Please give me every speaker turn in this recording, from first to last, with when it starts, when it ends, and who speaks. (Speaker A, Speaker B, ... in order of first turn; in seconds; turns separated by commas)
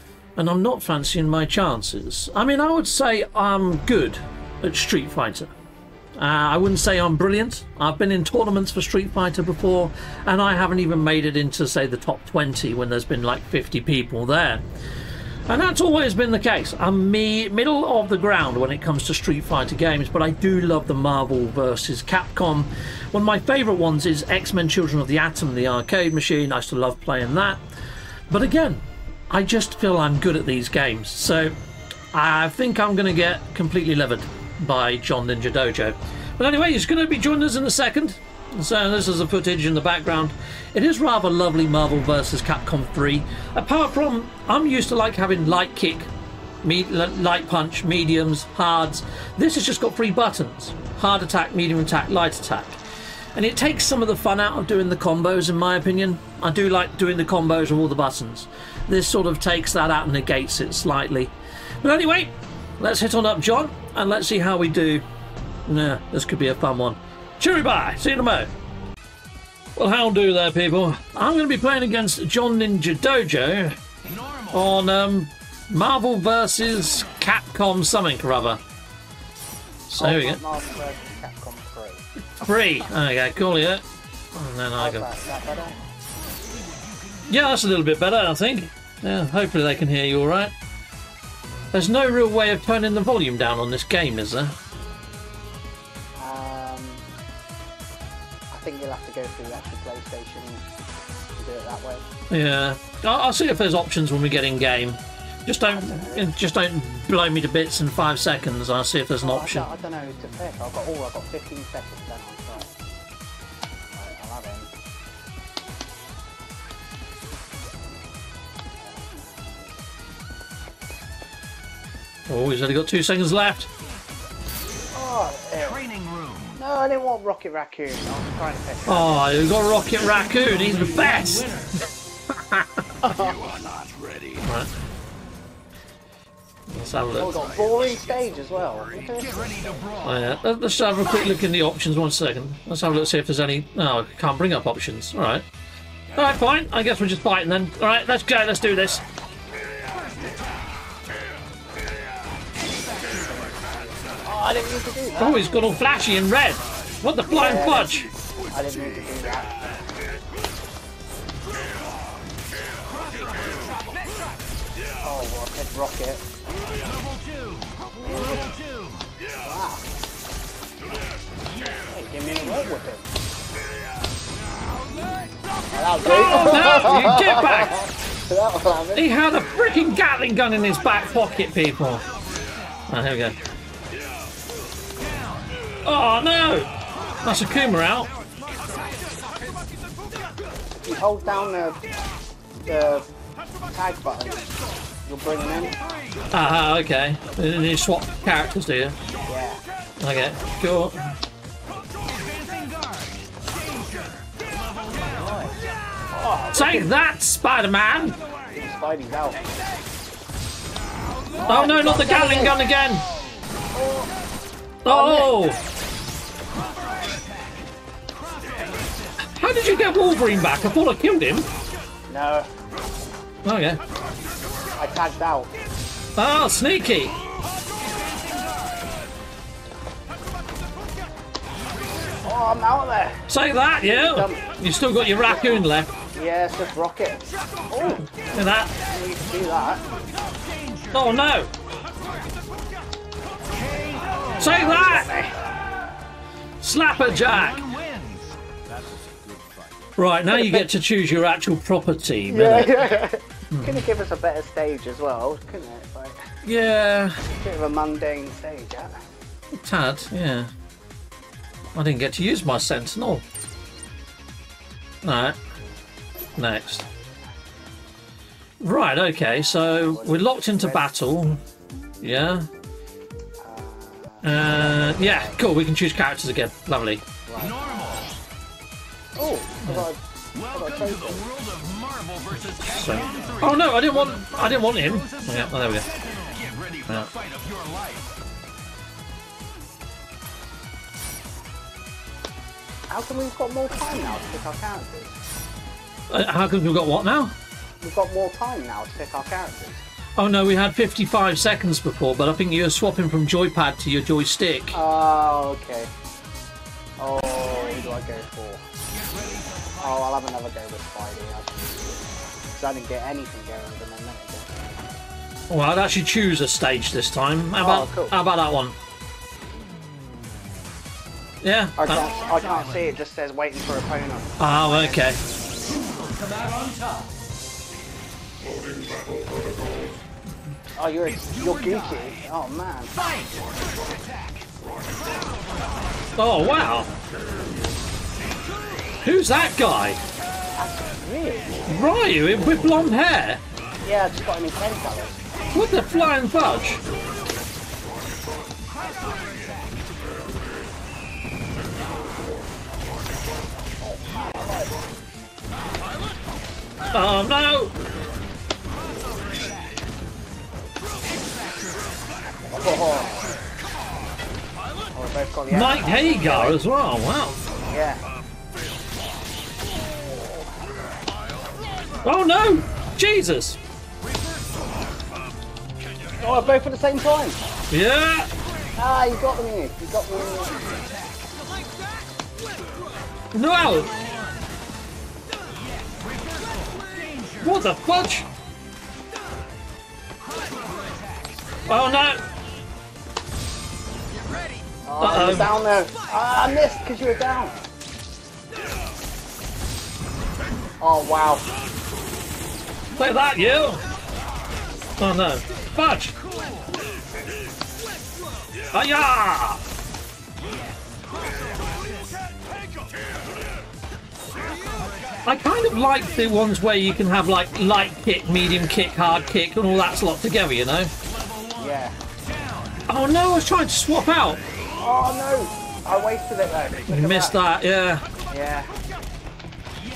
Speaker A: 0.4-5.5, Speaker A: 6.2-14.6, Speaker A: 15.5-27.6, Speaker A: 28.3-31.6, Speaker A: 32.1-46.1, Speaker A: 46.6-52.8, Speaker A: 53.4-65.0, Speaker A: 65.7-68.5, Speaker A: 69.8-73.8, Speaker B: 74.1-74.4, Speaker A: 74.5-78.6, Speaker A: 79.9-80.4, Speaker C: 80.0-82.0, Speaker A: 82.4-85.1, Speaker C: 84.8-85.8, Speaker A: 87.3-90.5, Speaker A: 91.7-94.5, Speaker C: 96.2-97.0, Speaker C: 98.5-100.6, Speaker C: 101.4-102.1, Speaker A: 102.3-109.7, Speaker C: 105.7-106.3, Speaker C: 109.2-112.7, Speaker C: 113.9-114.7, Speaker C: 118.8-119.8, Speaker A: 122.3-123.7, Speaker C: 124.9-125.8, Speaker B: 125.9-126.4, Speaker C: 126.6-129.6, Speaker A: 128.9-131.5, Speaker A: 132.4-132.7, Speaker C: 133.0-133.4, Speaker B: 133.7-134.3, Speaker A: 134.4-134.7, Speaker A: 136.7-137.4, Speaker C: 137.2-140.1, Speaker A: 140.0-145.4, Speaker A: 146.2-149.0, Speaker C: 154.2-155.7, Speaker A: 155.2-158.1, Speaker C: 157.3-157.9, Speaker C: 158.5-159.9, Speaker C: 165.0-166.2, Speaker C: 168.0-168.5, Speaker C: 169.4-169.8, Speaker C: 171.8-173.1, Speaker C: 175.7-179.1, Speaker A: 176.0-177.8, Speaker A: 178.9-182.0, Speaker A: 182.9-183.4, Speaker A: 185.8-186.7, Speaker A: 187.2-188.1, Speaker C: 190.8-191.8, Speaker C: 192.7-193.1, Speaker C: 193.7-194.5, Speaker C: 195.1-195.8, Speaker A: 196.3-199.0, Speaker C: 199.3-199.6, Speaker A: 200.0-201.2, Speaker B: 202.5-203.1, Speaker B: 203.8-204.1, Speaker C: 206.1-206.9, Speaker A: 206.5-208.2, Speaker C: 208.5-209.4, Speaker C: 211.3-212.6, Speaker A: 211.5-213.0, Speaker C: 213.7-214.1, Speaker A: 214.8-215.6, Speaker C: 214.9-215.3, Speaker A: 219.3-221.5, Speaker C: 222.1-222.5, Speaker A: 223.4-223.8, Speaker C: 224.8-225.5, Speaker A: 226.2-227.2, Speaker C: 232.2-233.2, Speaker A: 233.3-235.9, Speaker C: 233.8-234.5, Speaker C: 236.1-239.8, Speaker A: 238.2-238.7, Speaker A: 240.9-241.5, Speaker B: 243.9-244.3, Speaker A: 244.4-245.1, Speaker C: 244.4-245.4, Speaker A: 246.6-247.7, Speaker B: 247.4-249.6, Speaker A: 250.0-252.9, Speaker C: 250.3-250.7, Speaker C: 252.3-256.2, Speaker A: 253.5-253.8, Speaker A: 256.4-257.1, Speaker C: 257.3-258.9, Speaker A: 259.6-260.5, Speaker A: 261.8-263.2, Speaker A: 265.0-265.4, Speaker A: 266.4-266.8, Speaker C: 266.4-267.1, Speaker A: 268.6-271.4, Speaker C: 269.5-270.8, Speaker A: 272.0-272.5, Speaker C: 273.4-275.4, Speaker A: 274.2-277.1, Speaker C: 277.2-278.1, Speaker C: 279.2-281.3, Speaker B: 281.3-283.3, Speaker A: 282.6-285.9, Speaker B: 286.1-288.0, Speaker A: 286.9-287.1, Speaker C: 292.9-295.2, Speaker A: 296.1-297.3, Speaker C: 297.8-299.8, Speaker A: 300.2-304.8, Speaker C: 304.7-305.9, Speaker C: 307.0-308.6, Speaker C: 309.8-314.5, Speaker A: 315.5-318.8, Speaker C: 317.6-318.2, Speaker A: 321.4-322.1, Speaker C: 321.8-325.1, Speaker A: 324.4-325.2, Speaker B: 326.1-327.0, Speaker C: 330.8-332.9, Speaker B: 333.3-334.4, Speaker A: 336.2-336.9, Speaker A: 339.0-340.0, Speaker C: 340.6-341.7, Speaker A: 341.7-343.4, Speaker C: 343.8-345.2, Speaker A: 345.5-346.8, Speaker C: 353.8-354.8, Speaker A: 356.9-357.7, Speaker C: 362.5-363.3, Speaker C: 364.9-366.6, Speaker A: 365.5-367.4, Speaker C: 367.6-368.0, Speaker A: 372.0-373.6, Speaker C: 376.2-377.4, Speaker A: 377.7-378.3, Speaker C: 378.8-380.7, Speaker A: 383.3-384.0, Speaker B: 386.6-387.2, Speaker A: 387.4-388.3, Speaker B: 390.7-391.0, Speaker A: 391.7-392.2, Speaker C: 394.9-397.6, Speaker A: 395.0-395.5, Speaker C: 400.8-401.5, Speaker A: 403.0-403.8, Speaker A: 405.0-406.1, Speaker A: 408.7-409.6, Speaker A: 415.2-420.9, Speaker C: 421.6-422.0, Speaker A: 422.9-424.4, Speaker C: 424.8-427.4, Speaker A: 426.9-428.1, Speaker C: 428.3-428.7